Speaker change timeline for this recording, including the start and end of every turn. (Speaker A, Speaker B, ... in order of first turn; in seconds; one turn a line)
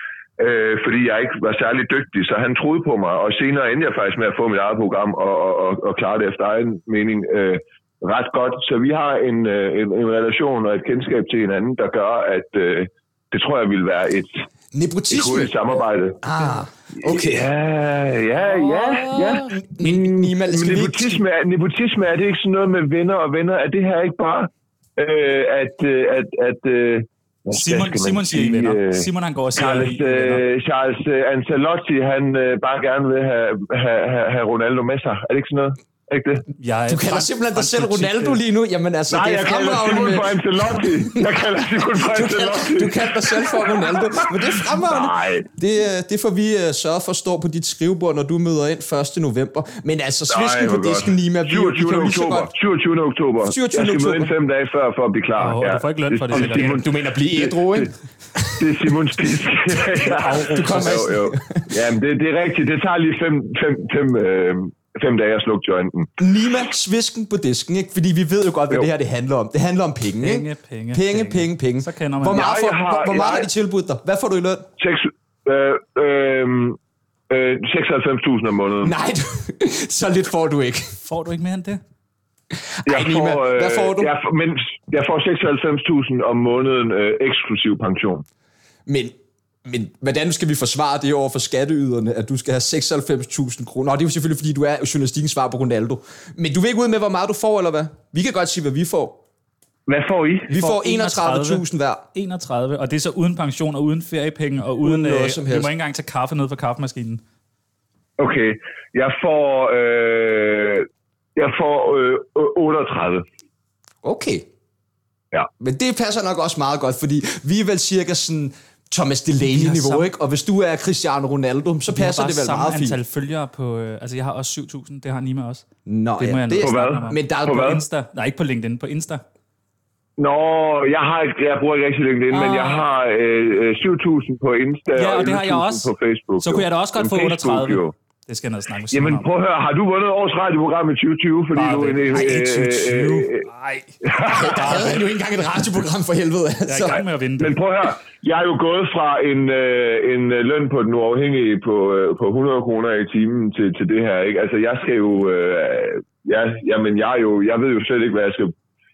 Speaker A: 0.4-14.4
Speaker B: 14.7-15.6
Speaker A: 15.1-16.2
Speaker B: 16.2-17.5
Speaker A: 17.0-36.5
Speaker B: 18.4-21.2
Speaker C: 27.5-30.4
Speaker C: 36.6-38.4
Speaker B: 36.9-52.5
Speaker A: 39.1-45.5
Speaker A: 50.3-57.9
Speaker B: 53.5-54.3
Speaker C: 55.4-56.8
Speaker B: 56.3-59.4
Speaker A: 58.6-66.1
Speaker C: 60.2-60.9
Speaker B: 60.5-61.7
Speaker B: 66.2-74.7
Speaker C: 70.2-72.4
Speaker A: 72.3-73.5
Speaker A: 74.8-76.8
Speaker A: 77.3-79.0
Speaker B: 78.8-81.0
Speaker C: 81.0-81.8
Speaker B: 82.6-84.1
Speaker A: 82.9-88.2
Speaker B: 88.9-89.1
Speaker B: 89.7-99.2
Speaker A: 99.9-100.5
Speaker C: 100.5-101.6
Speaker B: 100.5-102.1
Speaker C: 102.2-107.2
Speaker B: 104.8-105.7
Speaker A: 108.2-113.2
Speaker B: 114.0-114.5
Speaker B: 115.6-123.0
Speaker C: 119.4-120.1
Speaker C: 121.9-125.6
Speaker B: 125.9-127.8
Speaker C: 126.2-129.2
Speaker A: 126.6-127.8
Speaker A: 130.2-137.9
Speaker C: 132.3-132.8
Speaker C: 135.0-139.3
Speaker A: 138.9-143.5
Speaker C: 141.6-142.7
Speaker B: 142.1-143.2
Speaker C: 143.4-143.9
Speaker A: 144.1-144.8
Speaker B: 144.3-147.0
Speaker C: 144.4-145.0
Speaker C: 146.7-147.5
Speaker A: 146.9-158.5